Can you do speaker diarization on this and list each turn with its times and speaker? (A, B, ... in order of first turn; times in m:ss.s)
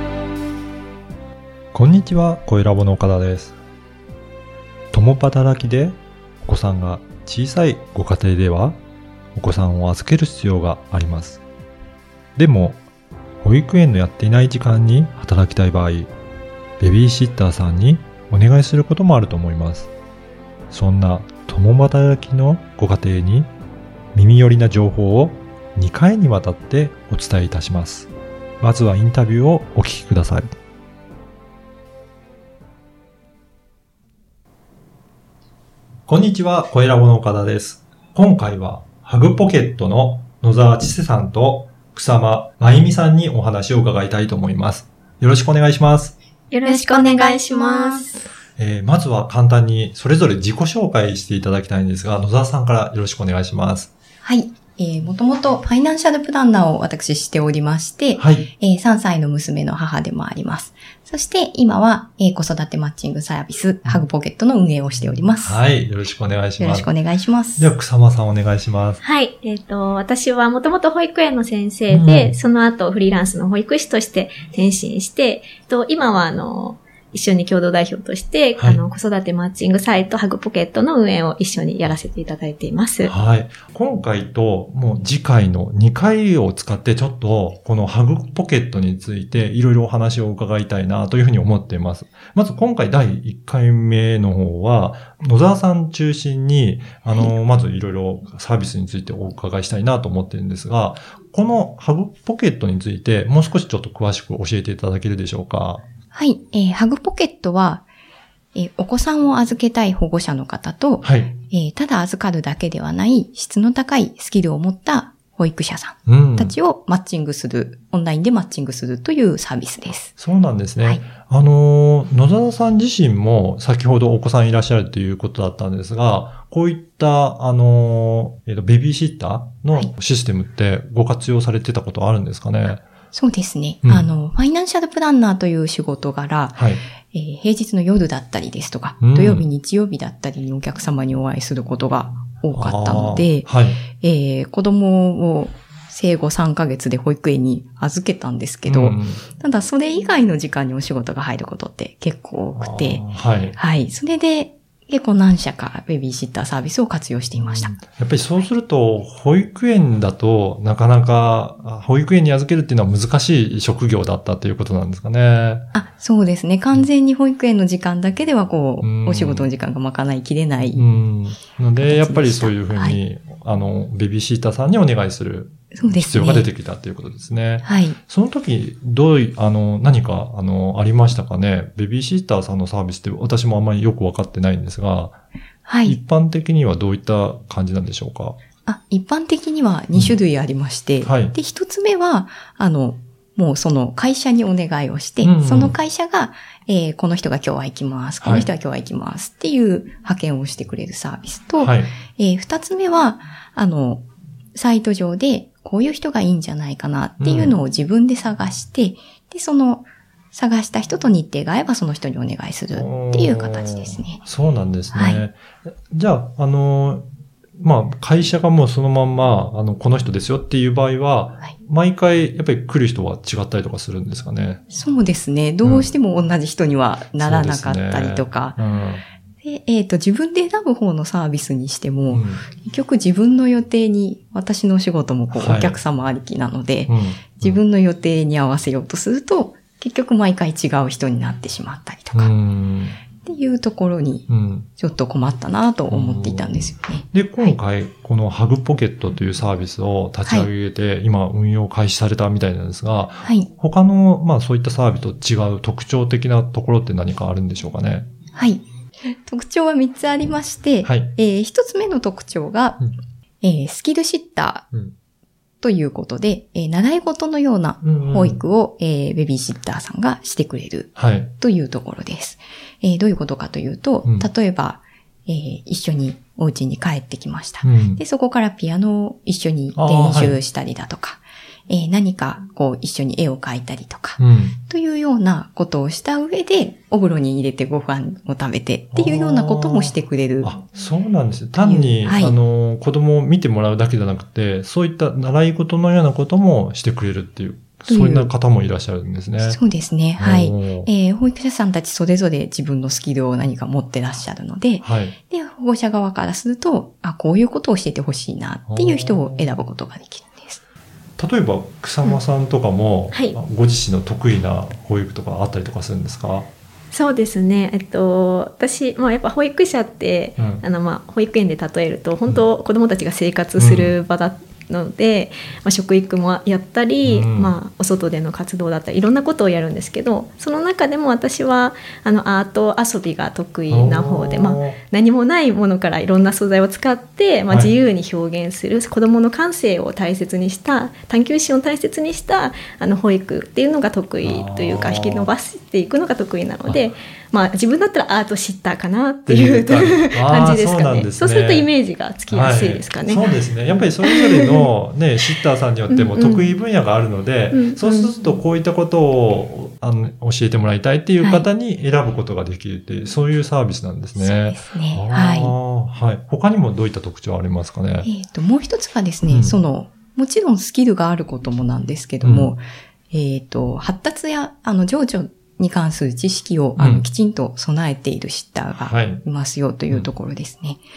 0:01.7-0:03.6 A
0:04.9-0:08.8 A
0:09.4-0:11.4 A
0:12.4-0:12.8 A
0:13.4-0:16.1 A
0:16.8-0:19.9 A
0:20.7-0:23.5 A
0:24.1-0:30.5 A
0:36.1-0:46.2 A
0:46.5-0:48.2 B
0:46.6-0:48.2 C
0:48.6-0:53.9 A
0:54.2-1:05.6 C
0:58.2-0:58.5 A
1:05.4-1:06.9 A
1:06.6-1:07.7 C
1:07.6-1:09.0 A
1:09.0-1:23.1 B
1:11.9-1:12.3 A
1:18.6-1:18.8 A
1:23.0-1:45.8 A
1:37.1-1:37.3 C
1:46.1-1:47.9 C
1:48.5-2:00.1 C
1:51.0-1:51.3 A
1:56.0-1:56.5 A
2:00.2-2:12.8 A
2:13.1-2:33.0 C
2:16.5-2:16.8 A
2:19.0-2:19.4 A
2:22.5-2:23.8 A
2:28.6-2:29.2 A
2:32.5-2:33.6 A
2:33.5-2:37.7 C
2:37.4-2:45.6 A
2:45.7-2:50.8 C
2:48.8-2:49.5 A
2:50.7-3:05.2 A
2:51.8-2:53.0 C
2:55.7-2:56.5 C
2:57.6-2:58.0 C
3:05.6-3:06.0 C
3:05.8-3:08.4 A
3:08.6-3:34.2 C
3:11.0-3:11.3 A
3:15.2-3:15.7 A
3:18.2-3:18.5 A
3:21.6-3:21.9 A
3:27.2-3:27.6 A
3:32.7-3:37.0 A
3:34.9-3:35.2 C
3:37.6-3:44.6 A
3:44.7-3:48.6 C
3:45.6-3:45.9 A
3:47.2-3:49.0 A
3:49.4-4:02.3 C
3:52.1-3:52.4 A
3:55.3-3:55.8 A
3:56.9-3:57.6 A
4:02.1-4:03.0 A
4:03.2-4:07.6 C
4:04.3-4:04.7 A
4:05.9-4:06.6 A
4:07.1-4:18.1 A
4:13.2-4:13.5 C
4:18.3-4:22.8 C
4:20.8-4:21.1 A
4:23.4-4:24.7 C
4:25.6-4:50.5 C
4:27.8-4:28.4 A
4:31.0-4:31.3 A
4:37.6-4:38.0 A
4:39.7-4:40.4 A
4:44.2-4:44.5 A
4:48.9-4:59.6 A
4:51.6-4:52.4 C
4:57.9-4:58.3 C
4:59.4-5:10.6 C
5:00.2-5:00.9 A
5:04.8-5:05.1 A
5:08.7-5:09.5 A
5:11.2-5:16.5 A
5:16.9-5:53.4 B
5:20.4-5:20.6 A
5:23.6-5:24.0 A
5:27.0-5:27.6 A
5:33.7-5:34.8 A
5:44.2-5:45.3 A
5:46.7-5:46.9 A
5:49.3-5:51.7 A
5:52.3-6:08.1 A
5:54.0-5:54.7 B
5:55.9-5:56.5 B
5:57.5-5:58.2 B
6:01.2-6:01.5 C
6:04.2-6:05.5 C
6:08.0-6:20.8 C
6:09.3-6:09.6 A
6:12.2-6:12.5 A
6:16.8-6:17.0 A
6:18.8-6:19.2 A